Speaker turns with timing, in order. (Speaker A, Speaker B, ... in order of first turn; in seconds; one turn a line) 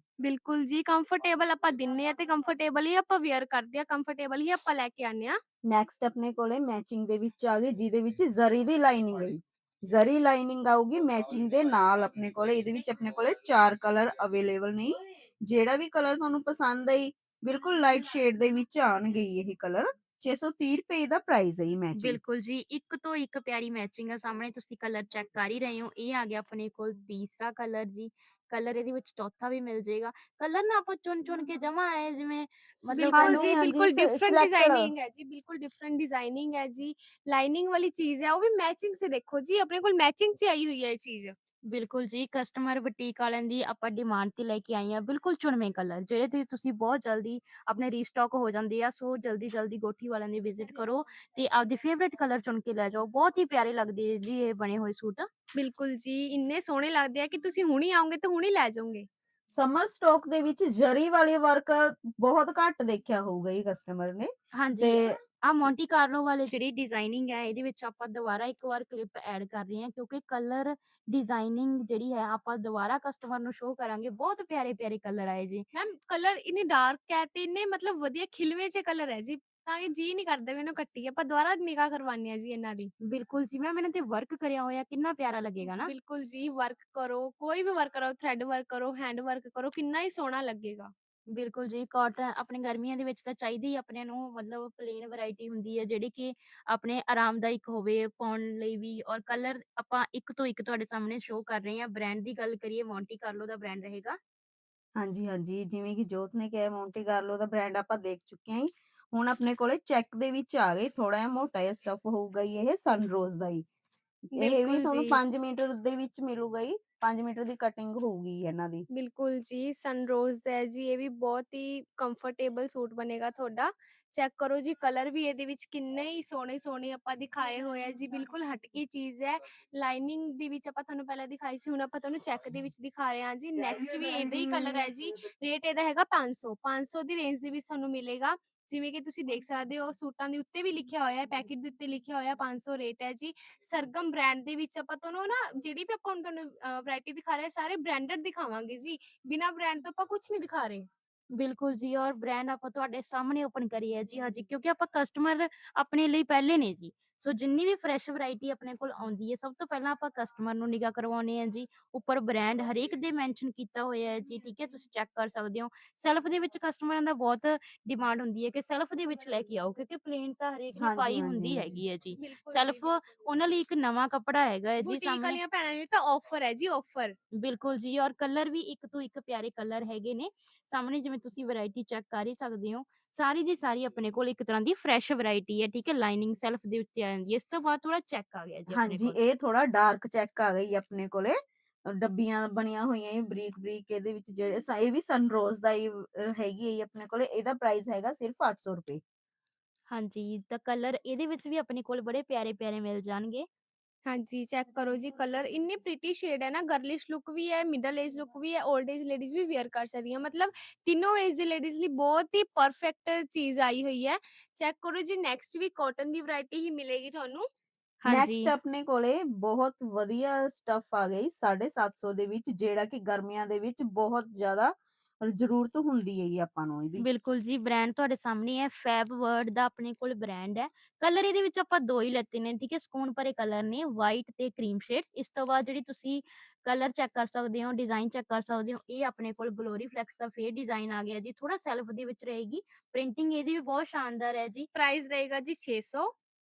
Speaker A: 0.2-5.3
Speaker B: 5.7-22.2
Speaker C: 22.0-33.5
Speaker A: 32.9-41.3
Speaker B: 33.1-34.9
Speaker C: 41.7-55.2
Speaker A: 55.6-59.0
Speaker B: 59.5-65.2
Speaker C: 64.5-75.6
Speaker A: 75.7-82.9
Speaker C: 83.1-85.9
Speaker A: 85.6-90.9
Speaker C: 91.3-104.2
Speaker B: 105.0-113.6
Speaker A: 114.4-115.2
Speaker B: 114.4-118.8
Speaker A: 118.9-150.8
Speaker C: 151.4-175.4
Speaker B: 170.8-171.7
Speaker A: 172.2-173.1
Speaker A: 174.8-177.2
Speaker C: 177.4-189.2
Speaker B: 188.7-191.3
Speaker B: 191.9-199.0
Speaker C: 199.9-203.4
Speaker A: 204.1-217.4
Speaker C: 218.0-218.5
Speaker B: 218.1-224.7
Speaker B: 225.2-227.1
Speaker C: 227.0-244.7
Speaker A: 244.7-246.1